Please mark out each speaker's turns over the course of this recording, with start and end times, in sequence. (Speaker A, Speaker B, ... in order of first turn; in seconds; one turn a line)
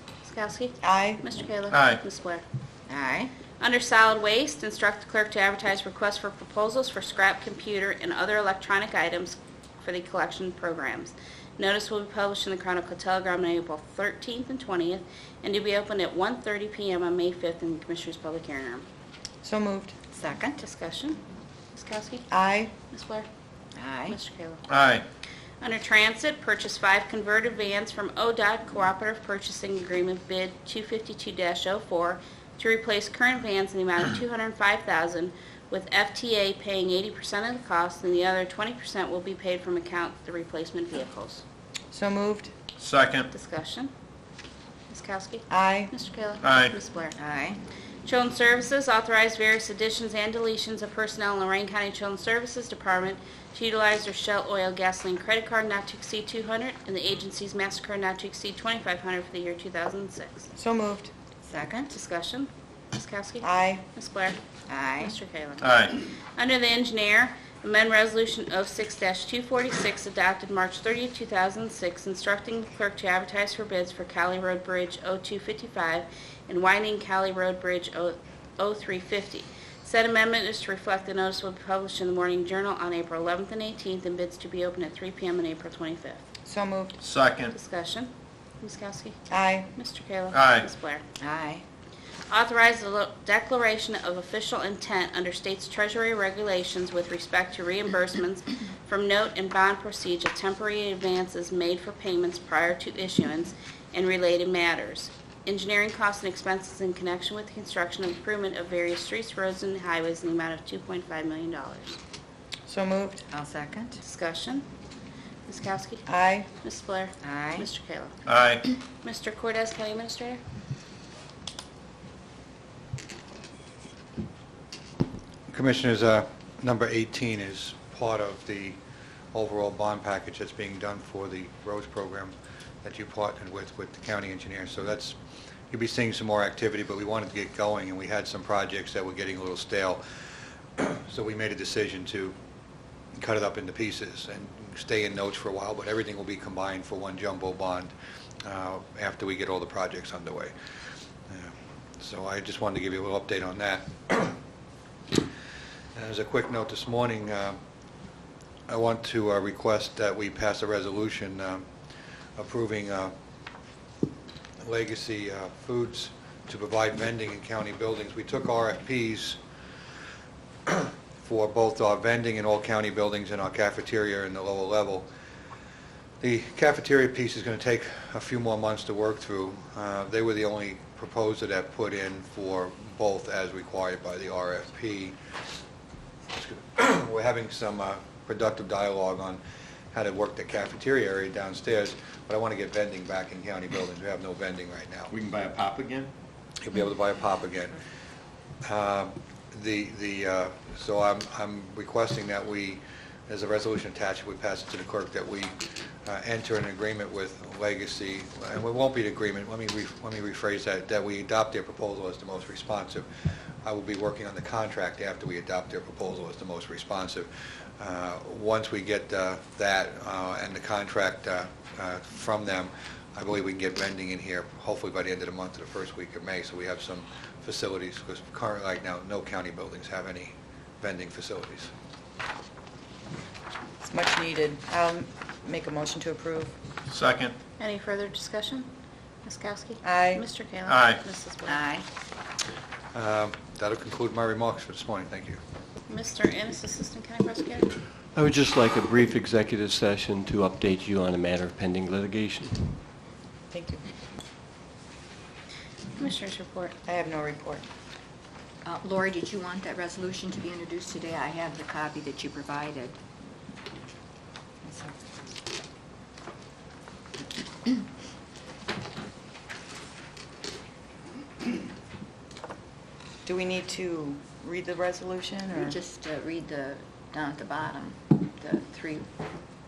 Speaker A: 0.2-2.4
Speaker B: 0.8-1.2
Speaker C: 1.7-2.0
Speaker D: 2.9-3.3
Speaker A: 3.6-18.9
Speaker B: 19.4-19.9
Speaker D: 20.1-20.6
Speaker A: 20.6-21.2
Speaker A: 21.7-22.3
Speaker B: 22.3-22.7
Speaker A: 22.9-23.3
Speaker D: 23.8-24.2
Speaker A: 24.1-24.6
Speaker C: 24.7-25.0
Speaker A: 25.6-41.4
Speaker B: 41.9-42.5
Speaker C: 42.8-43.3
Speaker A: 43.3-43.9
Speaker A: 44.9-47.1
Speaker B: 45.5-45.9
Speaker D: 47.1-47.6
Speaker A: 48.0-60.5
Speaker B: 60.6-61.1
Speaker D: 61.5-61.9
Speaker A: 61.9-64.4
Speaker B: 63.4-63.8
Speaker D: 64.7-65.1
Speaker A: 65.0-86.2
Speaker C: 65.6-65.9
Speaker B: 86.5-87.0
Speaker C: 87.0-87.5
Speaker A: 87.5-89.2
Speaker B: 89.3-89.7
Speaker A: 89.8-91.0
Speaker C: 90.3-90.7
Speaker D: 91.2-91.6
Speaker A: 92.3-112.0
Speaker B: 112.7-113.2
Speaker D: 113.3-114.0
Speaker A: 114.0-114.7
Speaker A: 115.5-116.1
Speaker B: 116.1-116.5
Speaker A: 116.6-118.2
Speaker D: 117.2-117.7
Speaker C: 118.3-118.6
Speaker A: 119.0-120.4
Speaker E: 125.5-128.8
Speaker E: 129.3-132.3
Speaker E: 132.8-135.2
Speaker E: 135.7-140.0
Speaker E: 140.8-142.3
Speaker E: 143.2-147.9
Speaker E: 148.4-150.5
Speaker E: 151.3-154.4
Speaker E: 156.0-157.6
Speaker E: 158.7-161.7
Speaker E: 162.4-163.1
Speaker E: 164.6-169.4
Speaker E: 170.7-175.1
Speaker E: 176.2-185.2
Speaker E: 186.3-189.4
Speaker E: 189.9-195.1
Speaker C: 195.1-196.1
Speaker E: 196.6-197.8
Speaker E: 198.7-213.1
Speaker E: 213.6-217.3
Speaker E: 217.8-231.7
Speaker B: 233.8-236.6
Speaker C: 236.9-237.3
Speaker A: 237.6-238.7
Speaker A: 239.2-241.6
Speaker B: 239.8-240.3
Speaker C: 240.7-241.0
Speaker D: 241.5-241.8
Speaker E: 242.9-245.4
Speaker A: 245.9-247.7
Speaker F: 248.2-252.8
Speaker B: 253.5-253.8
Speaker A: 256.0-256.8
Speaker B: 256.9-257.6
Speaker D: 258.6-263.0
Speaker B: 264.6-264.9
Speaker B: 273.2-275.8
Speaker D: 275.6-279.1